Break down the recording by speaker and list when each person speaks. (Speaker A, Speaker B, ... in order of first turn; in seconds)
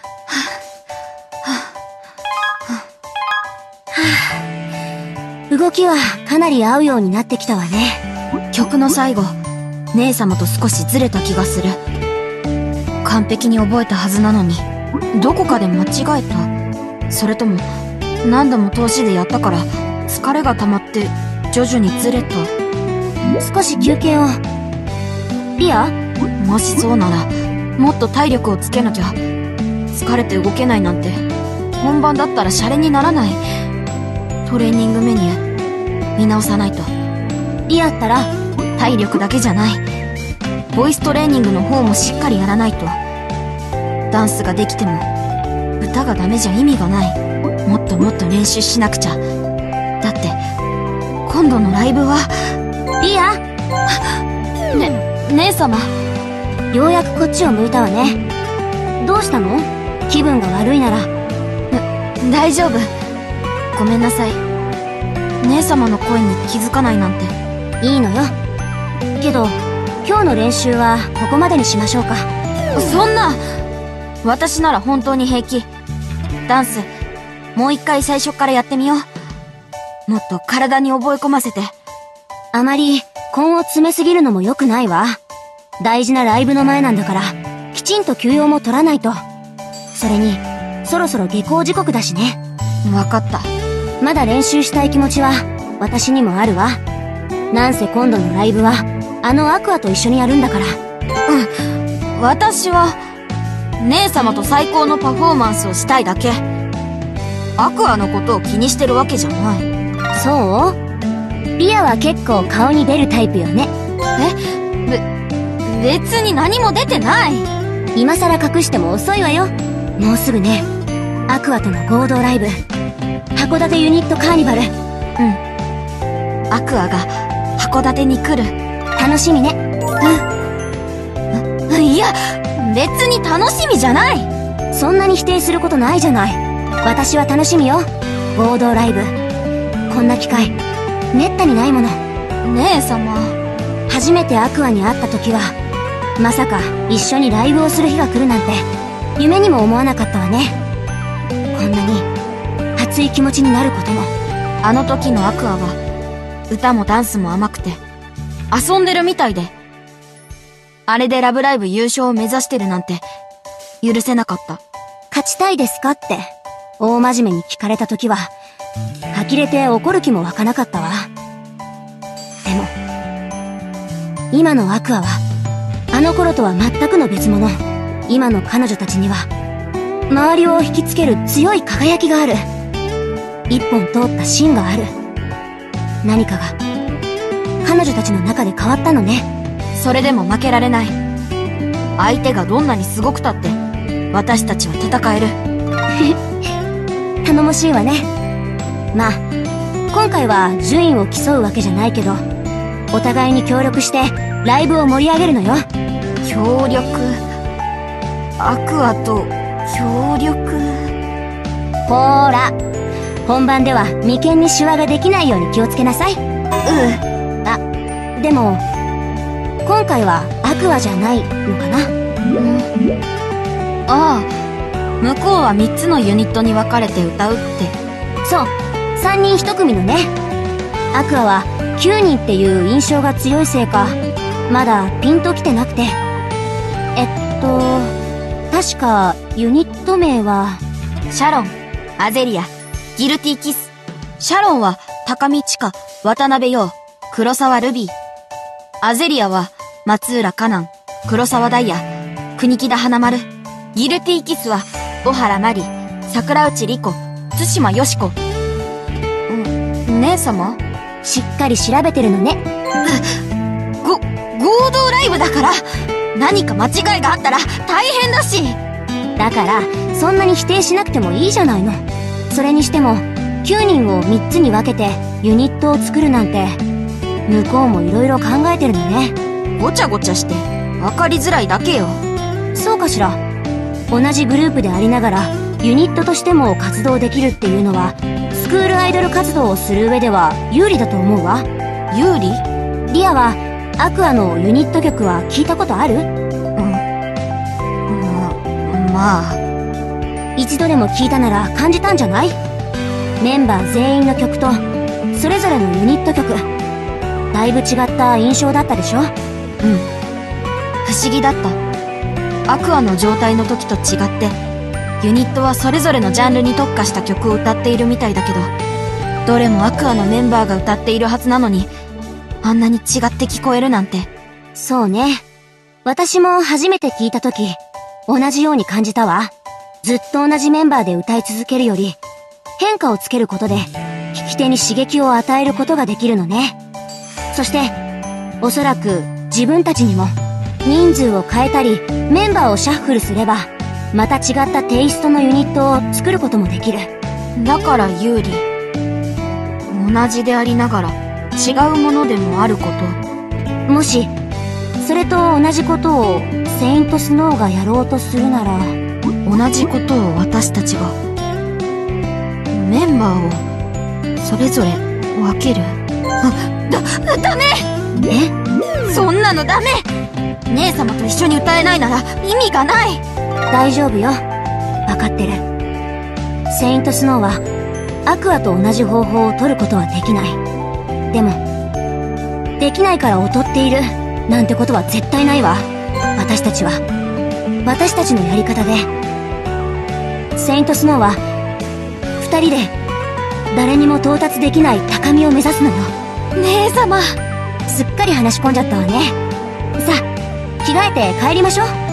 Speaker A: 1.4-1.7, 8.5-9.4, 9.9-11.8, 13.0-16.5, 17.1-17.7, 18.2-22.5, 26.4-29.2, 29.9-31.2, 31.8-33.4, 34.5-35.4, 36.2-36.9, 38.8-39.8, 40.7-43.0, 44.1-45.1, 45.8-49.2, 50.0-50.4, 51.3-52.5, 54.7-55.9, 61.7-62.9, 63.7-64.4, 65.4-67.3, 72.8-73.4, 74.2-75.7, 76.5-76.9, 77.5-79.1, 80.1-81.7, 92.8-93.5, 101.3-103.0, 103.8-106.4, 107.6-109.7, 114.2-115.0, 115.7-117.5, 126.5-128.6, 131.3-134.3, 142.4-143.4, 154.6-155.8, 156.5-157.8, 158.5-159.5, 160.9-163.0, 163.8-164.6, 189.7-191.0, 192.0-193.6, 194.1-195.4, 206.2-207.2, 208.4-210.9, 216.7-217.0, 222.3-222.7, 223.9-224.3, 225.0-227.8, 241.1-247.9, 248.8-258.2, 259.3-260.6, 262.9-263.2, 263.8-265.6, 266.1-268.6, 279.6-282.0, 291.9-292.4, 296.6-296.8, 297.9-299.4, 309.6-309.9, 310.8-311.6, 312.5-314.4, 315.0-318.5, 319.2-321.7, 322.4-324.1, 347.4-348.4, 349.7-353.0, 359.2-361.0, 362.5-363.4, 364.2-367.7, 368.9-369.9, 370.5-373.0, 396.4-397.2
Speaker B: 3.9-4.4, 5.5-8.0, 23.4-24.4, 25.6-25.9, 37.7-38.3, 53.0-53.4, 56.7-58.2, 59.0-61.1, 67.8-68.3, 69.2-72.3, 82.5-85.2, 85.8-89.2, 89.9-92.4, 94.0-96.8, 97.5-100.8, 110.1-110.8, 111.6-113.7, 118.0-120.7, 121.3-122.5, 123.3-124.7, 129.0-129.6, 134.7-139.1, 139.9-140.6, 141.1-142.0, 143.9-145.6, 146.2-148.7, 149.2-150.6, 151.5-152.1, 152.8-154.1, 165.1-168.3, 169.1-171.1, 172.4-172.7, 174.3-175.2, 175.9-179.3, 180.1-182.5, 183.5-184.9, 186.0-186.6, 187.6-189.3, 197.2-198.1, 198.9-199.2, 199.9-202.2, 202.9-205.7, 211.9-212.6, 213.3-216.2, 218.2-218.6, 219.6-221.9, 228.2-230.1, 230.9-234.0, 234.5-236.0, 237.0-237.9, 238.5-240.6, 261.0-262.4, 269.2-276.6, 277.3-279.2, 282.6-283.2, 283.9-291.5, 292.9-296.1, 300.4-302.4, 303.2-306.5, 307.3-309.1, 324.6-325.2, 325.9-332.0, 332.6-336.6, 337.3-337.8, 338.4-340.1, 340.6-346.9, 353.7-354.1, 354.8-358.8, 368.1-368.3, 373.5-374.2, 374.9-375.4, 376.5-377.4, 378.1-380.4, 381.1-381.4, 382.6-386.8, 387.6-388.9, 390.4-391.2, 392.2-392.8, 393.5-395.9, 397.7-399.2, 399.8-400.1, 400.6-401.7